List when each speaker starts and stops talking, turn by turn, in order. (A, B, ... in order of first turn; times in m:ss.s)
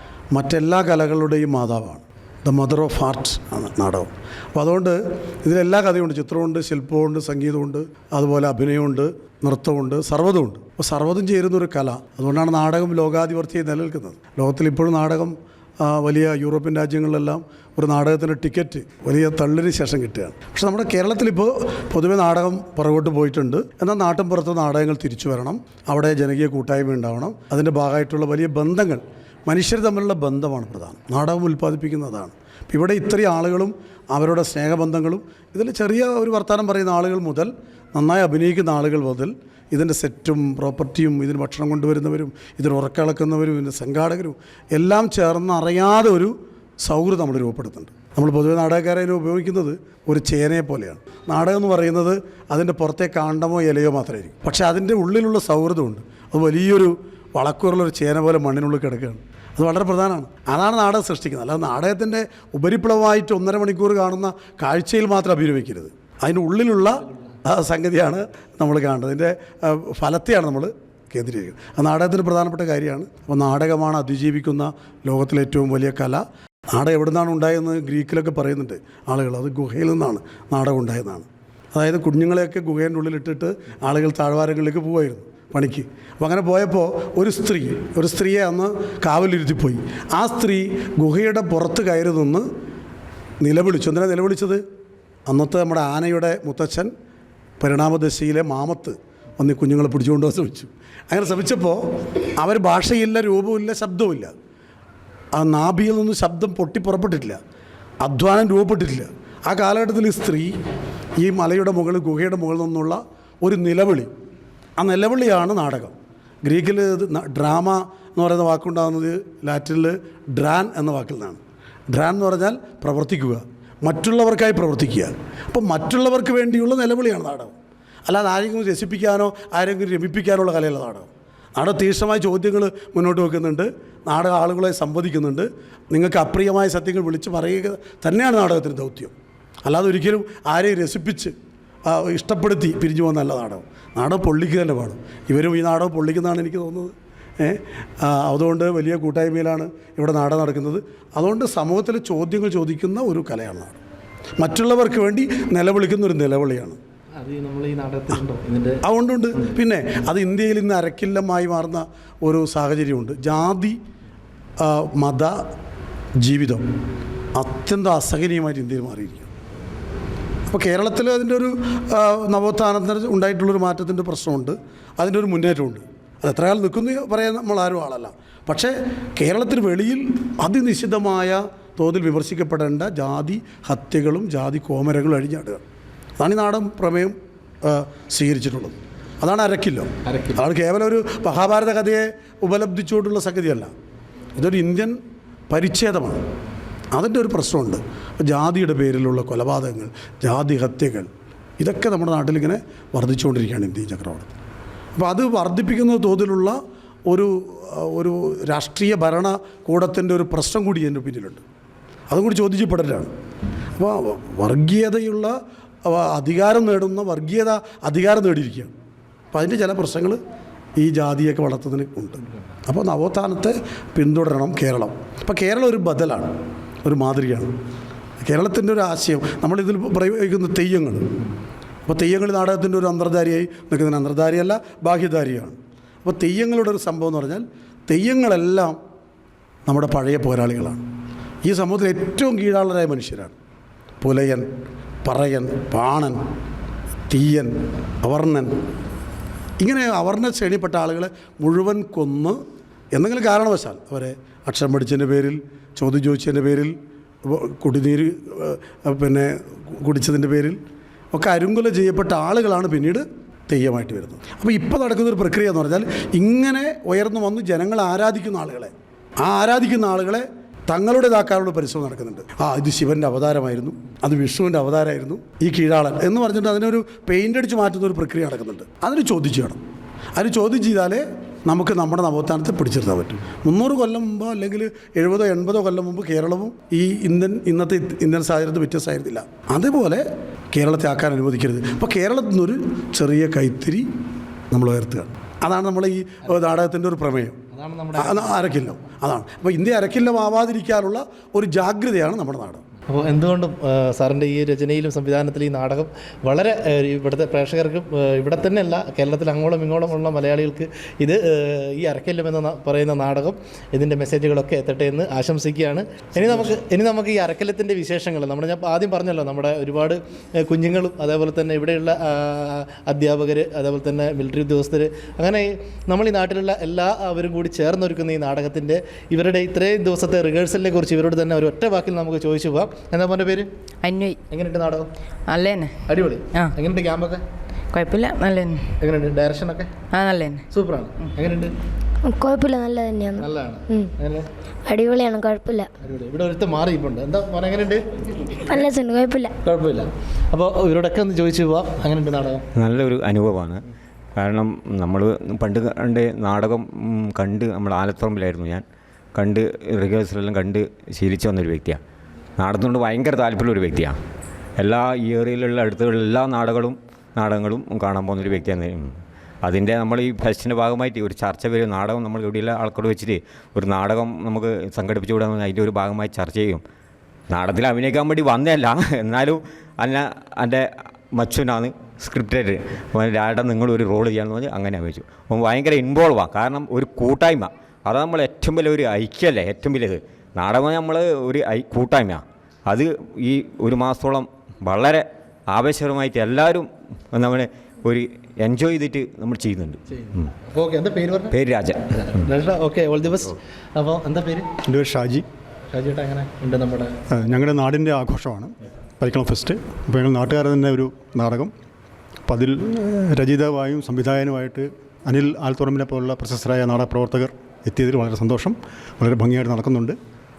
0:00.3-1:32.5 A
1:33.4-1:34.6 A
1:35.3-1:36.9 A
1:37.6-1:41.8 A
1:42.4-1:44.3 A
1:45.4-1:47.4 A
1:48.0-1:50.6 A
1:51.2-1:54.1 A
1:54.8-2:07.5 A
2:08.1-2:19.1 A
2:19.6-2:21.3 A
2:21.9-2:33.8 A
2:34.4-2:36.8 A
2:37.2-2:38.8 B
2:38.8-2:43.8 A
2:44.6-2:45.4 A
2:46.2-2:46.6 A
2:47.4-2:49.3 A
2:50.5-3:05.6 A
3:06.2-3:13.7 A
3:10.1-3:10.4 B
3:14.4-3:15.0 A
3:15.5-3:16.2 A
3:16.9-3:24.3 A
3:25.0-3:31.4 A
3:32.1-3:33.1 A
3:33.8-3:38.7 A
3:39.3-3:40.2 A
3:40.8-3:46.3 A
3:46.8-3:47.5 A
3:48.2-3:51.1 A
3:51.9-3:58.8 A
3:59.7-4:00.8 A
4:01.4-4:03.4 A
4:04.0-4:04.5 A
4:05.0-4:06.2 A
4:07.1-4:08.5 A
4:09.6-4:12.4 A
4:12.9-4:20.6 A
4:21.1-4:39.6 A
4:40.2-4:53.9 A
4:54.5-4:57.4 A
4:57.5-4:58.4 B
4:58.0-5:02.6 A
5:02.9-5:33.5 B
5:33.8-5:34.2 C
5:34.3-5:34.9 B
5:35.3-5:36.5 C
5:35.9-5:37.2 B
5:37.7-5:38.7 C
5:38.8-5:39.7 B
5:39.9-5:40.4 C
5:40.5-5:41.5 B
5:42.1-5:43.9 D
5:43.2-5:44.3 B
5:44.7-5:45.7 D
5:45.8-5:47.8 B
5:48.5-5:49.3 D
5:49.4-5:52.5 B
5:52.6-5:53.6 E
5:54.2-5:58.6 E
5:59.2-6:01.8 E
6:02.4-6:04.0 E
6:04.6-6:16.6 E
6:17.3-6:40.3 E
6:39.9-6:41.4 B
6:41.3-6:41.8 E
6:41.9-6:44.5 B
6:44.7-6:45.3 F
6:45.7-6:47.0 B
6:47.1-6:51.5 F
6:52.3-7:00.0 F